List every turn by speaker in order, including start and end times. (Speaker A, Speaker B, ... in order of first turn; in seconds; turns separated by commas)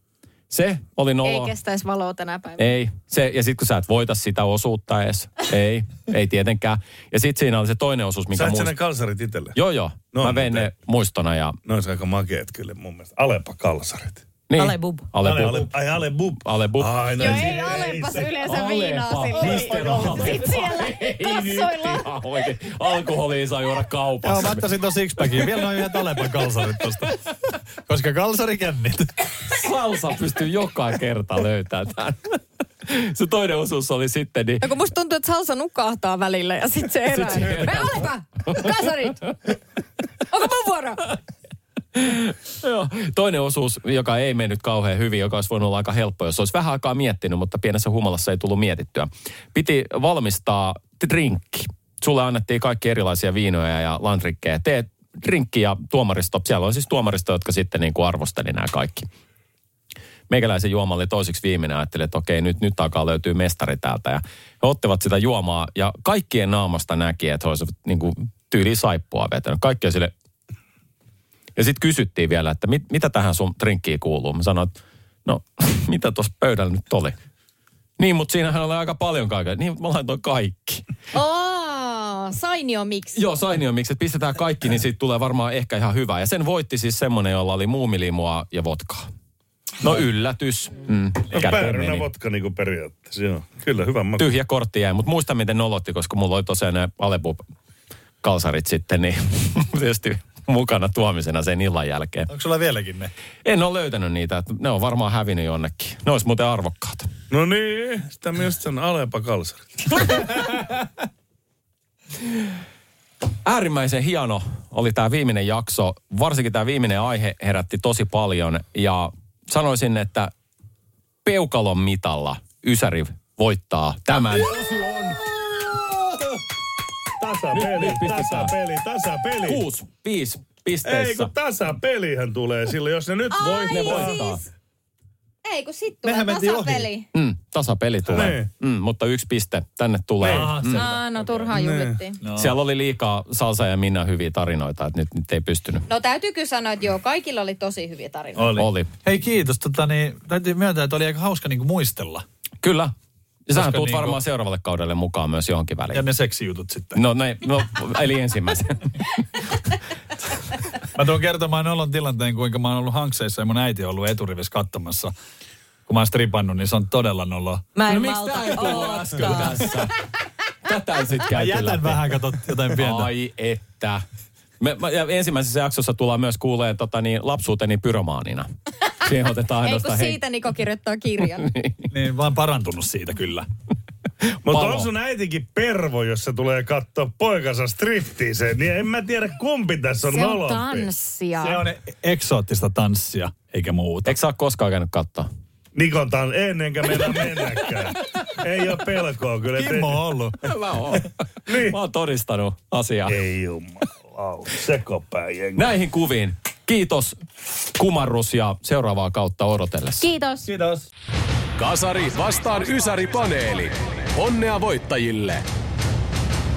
Speaker A: 0.5-1.5, Speaker B: 1.2-2.7, Speaker A: 2.6-8.7, Speaker C: 8.3-9.6, Speaker A: 9.6-11.6, Speaker C: 10.1-10.7, Speaker C: 11.7-14.2, Speaker A: 14.5-15.8, Speaker D: 14.6-15.1, Speaker C: 15.2-18.4, Speaker A: 16.4-17.6, Speaker B: 17.2-22.1, Speaker A: 18.4-24.7, Speaker E: 24.2-29.3, Speaker A: 29.5-34.6, Speaker B: 34.6-39.2, Speaker A: 37.1-39.4, Speaker B: 40.3-41.0, Speaker A: 42.0-59.1, Speaker A: 60.3-70.1, Speaker A: 71.6-77.2, Speaker A: 78.0-80.8, Speaker B: 81.1-83.2, Speaker A: 83.2-89.1, Speaker A: 89.8-92.0, Speaker C: 91.3-94.3, Speaker A: 94.2-97.4, Speaker A: 98.2-102.3, Speaker E: 102.3-103.1, Speaker A: 103.5-107.1, Speaker C: 107.3-110.2, Speaker A: 113.5-120.3, Speaker A: 121.2-125.2, Speaker C: 127.2-129.6, Speaker A: 127.5-128.5, Speaker A: 129.4-131.3, Speaker C: 130.8-134.2, Speaker B: 133.3-134.4, Speaker A: 133.6-134.4, Speaker B: 135.4-137.1, Speaker E: 136.0-136.9, Speaker A: 137.1-140.8, Speaker C: 138.1-138.5, Speaker C: 140.2-140.5, Speaker E: 140.2-141.5, Speaker B: 140.7-142.2, Speaker C: 141.5-142.0, Speaker E: 142.2-142.6, Speaker A: 142.4-145.9, Speaker B: 145.9-148.4, Speaker E: 148.4-152.2, Speaker A: 148.5-148.9, Speaker A: 152.6-152.9, Speaker A: 153.5-156.1, Speaker E: 153.5-154.2, Speaker E: 155.9-157.0, Speaker A: 156.9-159.5, Speaker E: 160.9-165.1, Speaker E: 165.9-167.7, Speaker D: 167.8-169.8, Speaker A: 167.9-170.0, Speaker A: 170.7-172.1, Speaker E: 171.3-173.1, Speaker A: 172.7-174.0, Speaker A: 174.6-178.5, Speaker A: 179.0-180.2, Speaker B: 179.6-181.5, Speaker A: 181.2-181.9, Speaker E: 181.9-183.5, Speaker A: 184.3-184.9, Speaker C: 184.4-190.9, Speaker B: 190.0-191.7, Speaker E: 191.4-194.2, Speaker A: 194.1-195.3, Speaker C: 195.8-200.0, Speaker E: 199.6-200.4, Speaker A: 200.4-203.2, Speaker C: 201.5-201.8, Speaker C: 203.1-205.7, Speaker A: 205.6-207.2, Speaker A: 207.8-210.1, Speaker B: 210.0-210.5, Speaker E: 210.4-210.9, Speaker F: 211.6-215.4